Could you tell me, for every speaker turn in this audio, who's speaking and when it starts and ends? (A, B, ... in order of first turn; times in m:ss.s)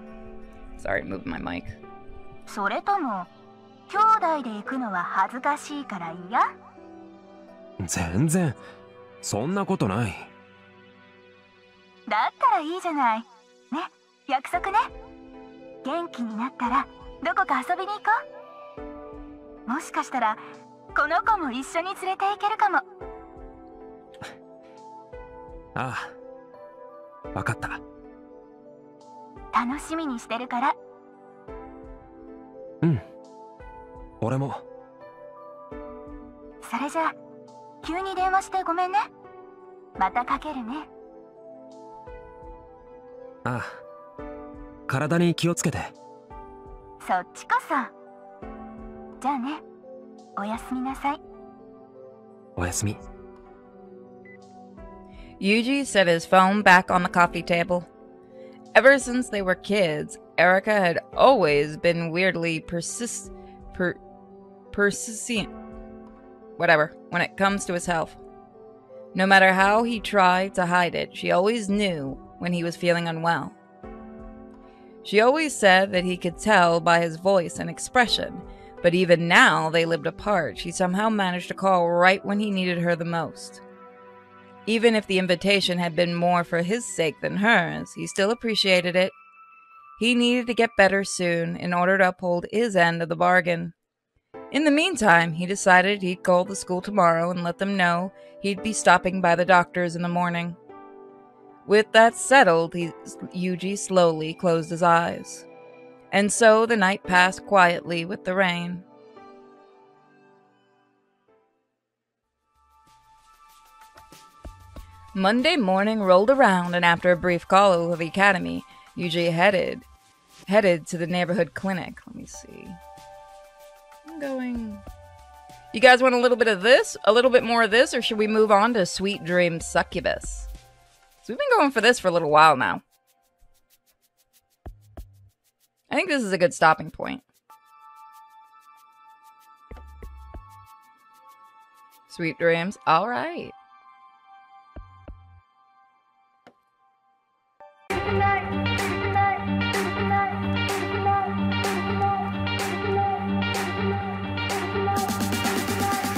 0:00.8-0:01.8 A
0:02.5-0:03.3 B
0:03.9-0:06.5 B
0:07.8-0:08.6 C
0:09.2-0:10.3 C
0:12.1-0:14.9 B
0:15.8-0:18.2 B
0:19.6-0:22.8 B
0:25.7-0:26.1 C
0:27.3-0:27.8 C
0:29.5-0:30.8 B
0:34.2-0:34.6 C
0:36.6-0:37.2 B
0:37.8-0:39.1 B
0:40.0-0:40.9 B
0:43.4-0:43.8 C
0:44.9-0:45.9 C
0:47.0-0:47.9 B
0:49.2-0:49.6 B
0:50.4-0:51.2 B
0:52.6-0:53.0 C
0:55.4-0:57.9 A
0:58.7-1:04.0 A
1:04.7-1:05.5 A
1:06.6-1:08.2 A
1:09.1-1:13.6 A
1:15.0-1:23.6 A
1:24.6-1:29.1 A
1:30.0-1:33.7 A
1:34.5-1:40.6 A
1:41.6-1:45.4 A
1:46.1-1:48.8 A
1:55.1-1:59.8 A
2:00.5-2:02.8 A
2:04.1-2:04.8 A
2:05.7-2:10.5 A
2:11.2-2:12.8 A
2:15.9-2:17.2 A
2:22.1-2:23.5 A